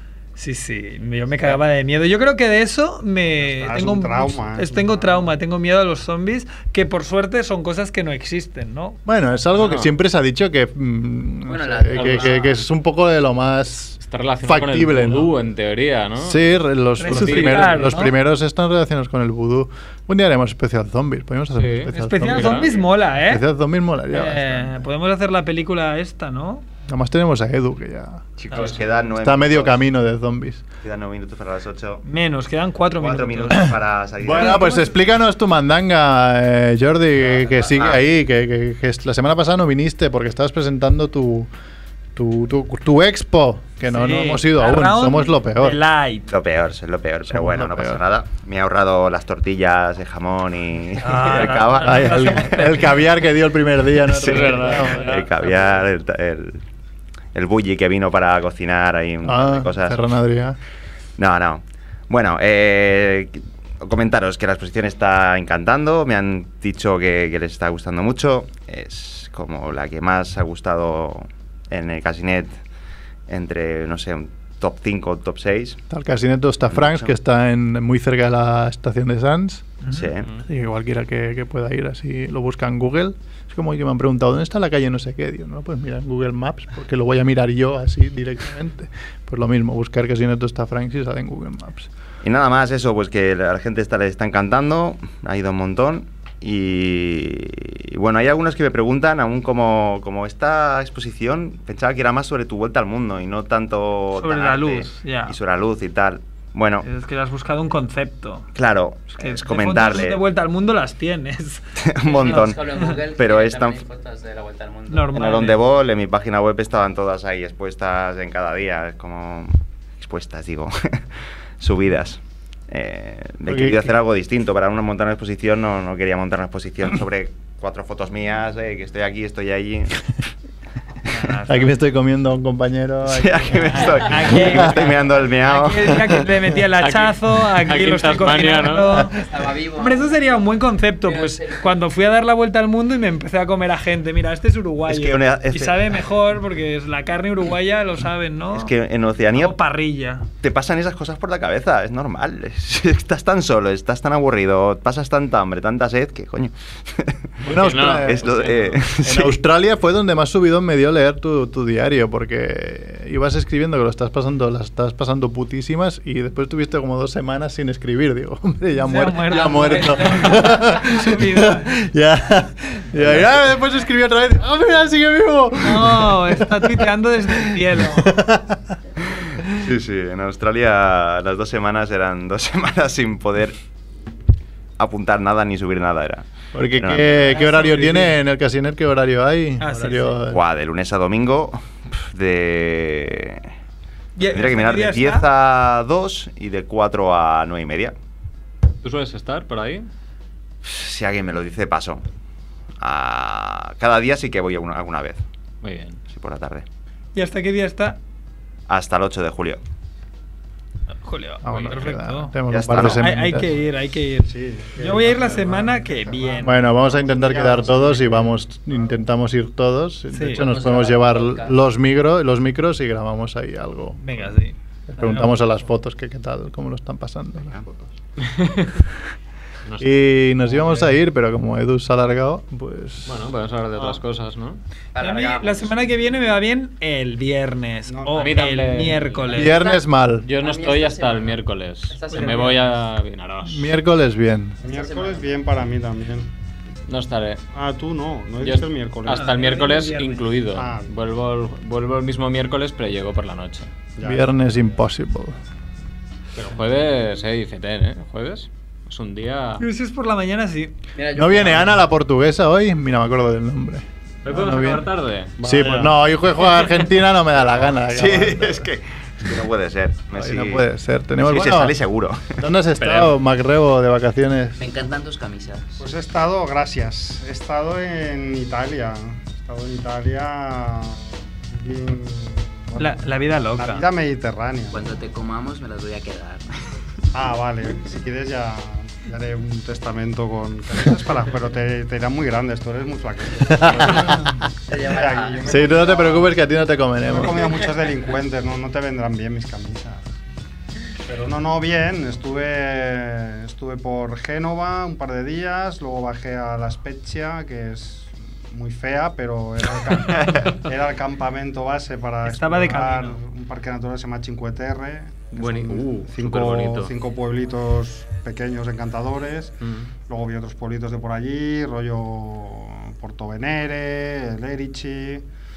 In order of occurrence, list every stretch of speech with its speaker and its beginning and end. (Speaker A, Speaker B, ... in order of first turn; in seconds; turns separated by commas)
Speaker A: 0.4-9.0, Speaker B: 3.4-5.3, Speaker C: 9.1-15.3, Speaker D: 9.6-9.9, Speaker E: 11.4-12.6, Speaker D: 11.9-12.3, Speaker D: 14.0-16.4, Speaker C: 16.2-24.8, Speaker A: 17.0-18.1, Speaker D: 17.1-17.9, Speaker D: 21.6-22.7, Speaker A: 21.9-23.4, Speaker A: 24.1-26.6, Speaker C: 26.9-28.2, Speaker F: 28.4-29.9, Speaker A: 28.5-28.8, Speaker C: 29.2-30.6, Speaker F: 30.8-32.0, Speaker A: 32.0-33.7, Speaker F: 33.0-34.7, Speaker C: 33.6-41.5, Speaker A: 34.3-34.9, Speaker F: 37.6-38.0, Speaker C: 42.2-45.8, Speaker A: 43.9-46.3, Speaker F: 46.3-52.8, Speaker C: 47.3-48.0, Speaker A: 51.0-52.9, Speaker C: 51.8-55.2, Speaker D: 54.1-55.8, Speaker F: 54.4-56.6, Speaker F: 57.3-60.0, Speaker C: 59.2-60.6, Speaker F: 61.2-72.5, Speaker F: 73.3-75.8, Speaker C: 75.9-79.8, Speaker F: 76.7-77.1, Speaker F: 79.9-80.4, Speaker C: 80.4-91.9, Speaker F: 92.2-106.9, Speaker A: 104.2-105.3, Speaker A: 106.8-108.5, Speaker F: 108.5-110.2, Speaker A: 109.2-112.9, Speaker F: 111.8-113.8, Speaker E: 112.0-115.2, Speaker A: 114.9-115.6, Speaker F: 115.1-122.2, Speaker F: 122.7-130.0, Speaker C: 123.5-123.9, Speaker A: 131.1-131.7, Speaker C: 131.4-134.9, Speaker F: 133.1-136.2, Speaker A: 133.7-139.2, Speaker D: 136.8-139.1, Speaker E: 139.1-141.8, Speaker A: 139.8-148.7, Speaker F: 144.9-146.0, Speaker F: 148.5-149.6, Speaker A: 149.3-150.3, Speaker F: 150.4-159.4, Speaker C: 157.4-158.4, Speaker D: 157.5-158.8, Speaker C: 159.0-178.8, Speaker A: 168.8-171.7, Speaker A: 175.6-178.2, Speaker F: 179.4-183.6, Speaker F: 184.8-187.6, Speaker C: 186.5-190.4, Speaker A: 187.3-188.1, Speaker A: 189.6-190.2, Speaker F: 190.2-193.5, Speaker A: 194.2-195.3, Speaker F: 194.2-197.9, Speaker D: 198.8-199.9, Speaker F: 200.6-202.0, Speaker F: 202.8-205.2, Speaker D: 205.6-206.0, Speaker F: 206.1-206.7, Speaker A: 207.2-208.0, Speaker F: 208.7-209.6, Speaker A: 211.0-216.6, Speaker C: 211.4-213.5, Speaker D: 211.5-211.8, Speaker F: 212.5-213.1, Speaker B: 214.3-218.4, Speaker C: 216.4-224.0, Speaker A: 220.1-220.5, Speaker E: 220.4-221.6, Speaker A: 224.0-225.3, Speaker C: 225.0-227.6, Speaker D: 228.2-228.8, Speaker D: 229.7-230.2, Speaker C: 229.8-233.2, Speaker D: 233.1-234.6, Speaker E: 234.9-236.3, Speaker A: 235.0-239.6, Speaker B: 237.9-238.4, Speaker D: 238.2-239.4, Speaker C: 239.3-240.3, Speaker E: 239.4-242.5, Speaker D: 240.2-243.7, Speaker A: 242.1-242.7, Speaker C: 243.4-244.6, Speaker E: 244.6-245.3, Speaker B: 244.6-246.3, Speaker D: 246.9-247.4, Speaker B: 247.5-249.4, Speaker D: 248.4-253.7, Speaker A: 249.1-250.3, Speaker B: 250.5-250.9, Speaker B: 254.0-254.4, Speaker C: 254.0-255.4, Speaker D: 256.4-259.6, Speaker A: 259.6-260.7, Speaker E: 260.9-261.9, Speaker C: 261.1-264.9, Speaker D: 264.2-265.4, Speaker C: 265.4-268.7, Speaker B: 265.4-265.9, Speaker F: 267.8-270.7, Speaker C: 270.1-271.8, Speaker F: 271.2-272.4, Speaker C: 272.4-274.6, Speaker D: 272.8-273.1, Speaker E: 274.6-275.8, Speaker B: 275.8-283.0, Speaker A: 282.8-283.8, Speaker B: 283.6-284.9, Speaker E: 284.7-286.5, Speaker B: 287.1-296.4, Speaker C: 293.5-294.4, Speaker E: 294.7-296.3, Speaker C: 295.5-297.6, Speaker B: 297.0-300.2, Speaker B: 301.0-325.2, Speaker A: 312.2-313.2, Speaker D: 315.3-316.9, Speaker D: 319.6-319.9